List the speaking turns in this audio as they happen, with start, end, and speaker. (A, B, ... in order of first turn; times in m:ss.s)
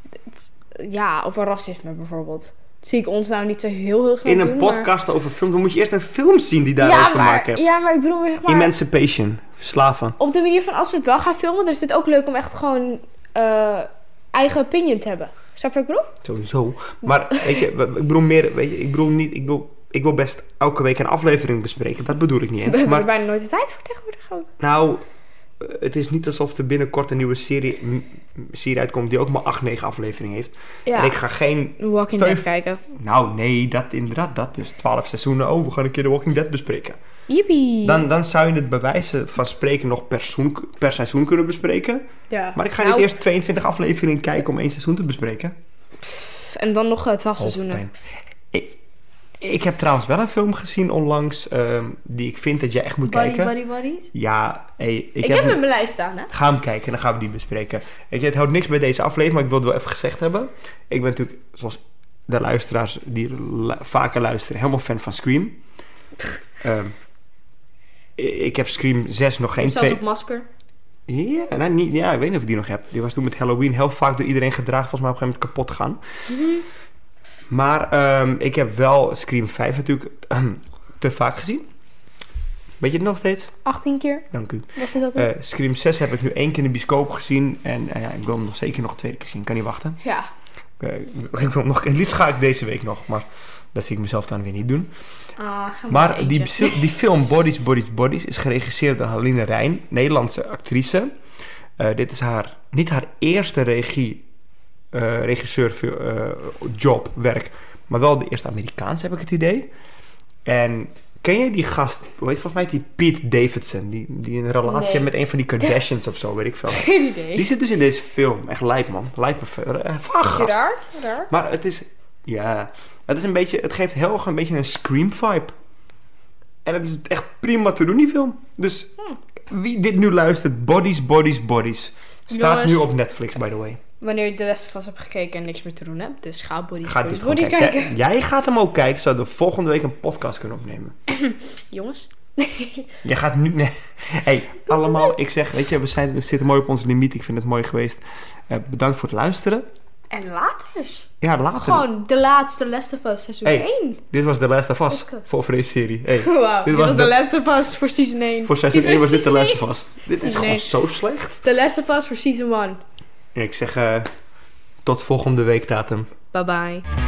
0:00.2-0:04.9 A
0:04.2-0:07.6 B
0:06.8-0:08.7 A
0:08.5-0:10.2 B
0:10.2-0:16.1 A
0:16.2-0:23.1 B
0:17.1-0:17.6 A
0:22.6-0:24.5 A
0:24.6-0:25.0 B
0:25.6-0:37.0 B
0:30.9-0:31.2 A
0:31.8-0:32.8 A
0:37.3-0:38.0 A
0:37.8-0:45.5 B
0:42.3-0:43.1 A
0:46.0-0:47.8 A
0:47.4-0:48.0 B
0:48.5-0:48.8 B
0:49.4-0:53.5 B
0:53.0-0:54.1 A
0:54.1-0:55.6 B
0:55.2-0:56.3 A
0:56.3-1:05.6 B
1:06.6-1:06.9 B
1:08.2-1:10.0 B
1:09.6-1:10.5 A
1:11.1-1:16.0 B
1:16.3-1:16.6 A
1:17.5-1:21.6 B
1:22.8-1:23.5 B
1:23.6-1:25.3 A
1:24.3-1:30.0 B
1:30.0-1:30.3 A
1:30.8-1:34.9 B
1:35.4-1:36.8 A
1:35.9-1:41.1 B
1:41.8-1:44.2 B
1:44.9-1:49.7 B
1:50.4-2:00.7 B
1:54.7-1:55.1 A
1:56.7-1:57.5 A
2:00.2-2:01.3 A
2:01.3-2:05.5 B
2:06.6-2:08.9 B
2:09.5-2:13.8 B
2:12.3-2:12.9 A
2:14.0-2:17.9 A
2:16.8-2:20.9 B
2:21.1-2:22.9 A
2:23.0-2:29.6 B
2:24.7-2:25.1 A
2:30.1-2:34.0 A
2:31.2-2:31.8 B
2:33.4-2:37.1 B
2:34.9-2:35.2 A
2:36.2-2:39.6 A
2:38.4-2:41.4 B
2:40.2-2:40.7 A
2:41.4-2:42.8 A
2:43.3-2:44.1 B
2:44.8-2:46.1 B
2:46.3-2:46.8 A